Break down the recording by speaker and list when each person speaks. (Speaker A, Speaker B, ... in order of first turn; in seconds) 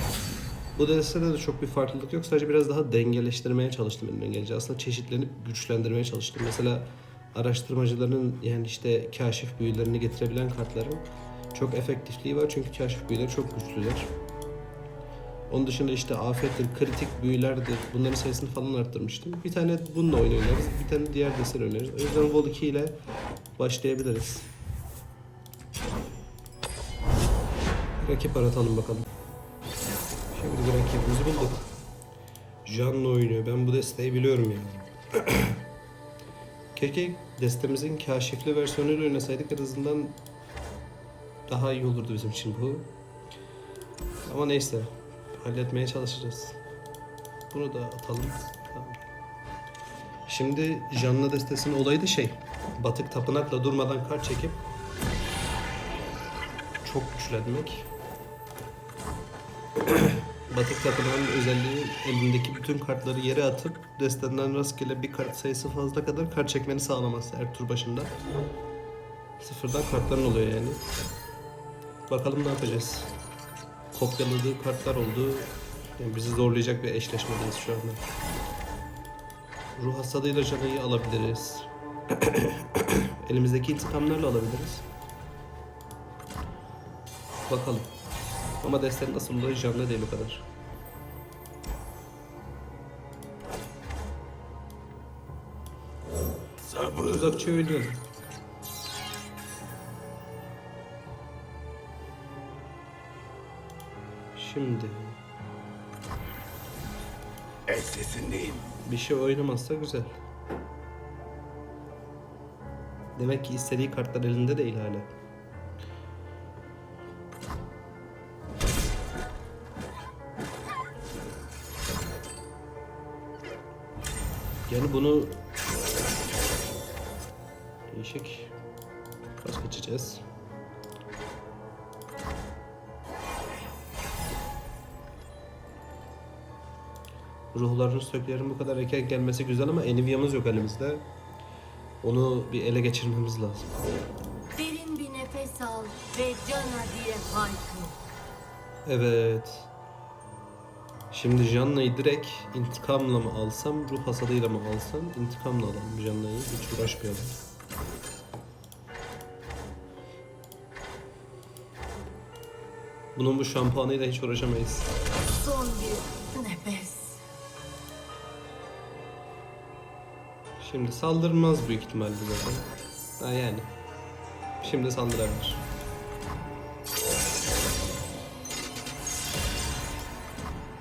Speaker A: 0.8-14.1, 15.5-23.0, 23.6-24.5, 28.0-29.1, 30.3-31.7, 32.6-35.6, 36.8-40.2, 41.5-42.9, 44.2-46.6, 47.5-49.0, 50.3-54.6, 56.8-57.9, 59.8-68.1, 69.4-70.8, 72.1-73.1, 73.9-78.0, 79.8-84.8, 87.5-87.9, 88.6-90.5, 97.0-98.0, 104.3-105.2, 108.8-110.2, 113.2-115.1, 124.7-125.4, 127.9-128.5, 129.4-130.2, 137.5-141.1, 142.0-143.7, 148.9-149.7, 151.1-157.4, 163.2-164.9, 170.6-173.7, 174.6-175.7
Speaker B: 96.6-97.5, 107.7-108.8
Speaker C: 144.6-147.9, 165.4-167.2